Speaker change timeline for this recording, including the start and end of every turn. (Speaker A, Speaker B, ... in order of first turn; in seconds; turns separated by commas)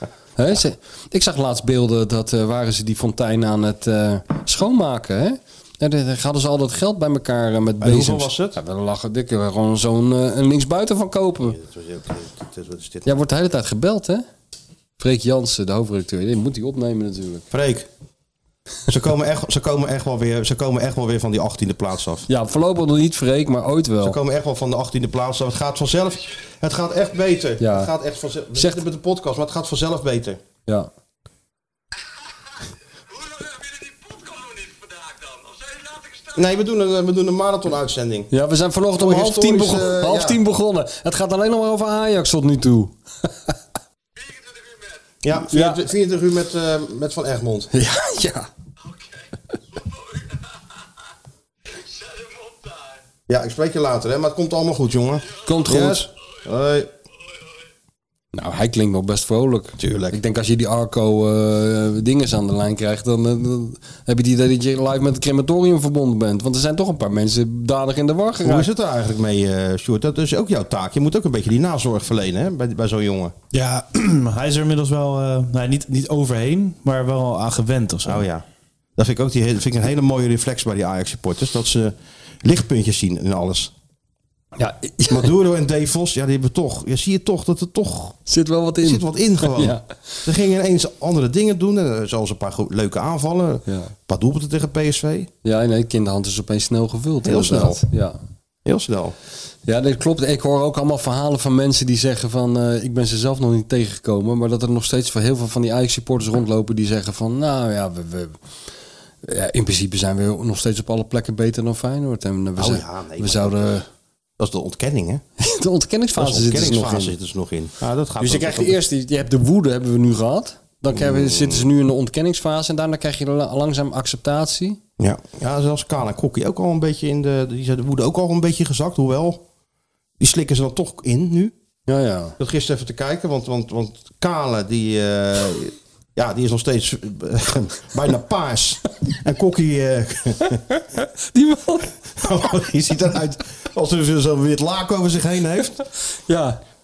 Speaker A: 0.3-11.6, Speaker B: 7.8-8.6, Speaker B: 11.4-13.2, Speaker A: 13.1-14.2, Speaker A: 15.0-17.4, Speaker B: 17.5-17.9, Speaker B: 18.9-22.2, Speaker A: 22.3-24.2, Speaker B: 24.0-30.4, Speaker A: 27.6-27.9, Speaker A: 28.5-28.8, Speaker B: 36.3-38.3, Speaker A: 38.3-43.5, Speaker B: 38.9-40.4, Speaker B: 45.2-47.7, Speaker A: 45.5-45.8, Speaker A: 47.7-48.5, Speaker B: 53.3-56.9, Speaker A: 55.4-56.1, Speaker A: 58.3-68.7, Speaker B: 59.8-60.2, Speaker B: 68.4-73.3, Speaker C: 73.5-78.2, Speaker B: 78.0-78.4, Speaker B: 79.0-83.7, Speaker A: 84.6-85.3, Speaker B: 85.1-88.2, Speaker A: 88.3-90.2, Speaker B: 88.8-95.3, Speaker A: 93.7-93.9, Speaker A: 95.4-98.2, Speaker B: 97.2-97.8, Speaker B: 98.6-99.1, Speaker A: 99.7-108.3, Speaker A: 109.2-113.9, Speaker B: 112.6-113.8, Speaker B: 114.4-115.2, Speaker A: 115.4-117.1, Speaker B: 116.2-118.8, Speaker A: 118.2-124.8, Speaker B: 120.9-121.7, Speaker B: 125.0-129.4, Speaker B: 130.2-131.5, Speaker A: 131.9-132.3, Speaker B: 132.4-140.6, Speaker A: 141.2-141.9, Speaker B: 142.2-145.8, Speaker A: 146.3-146.6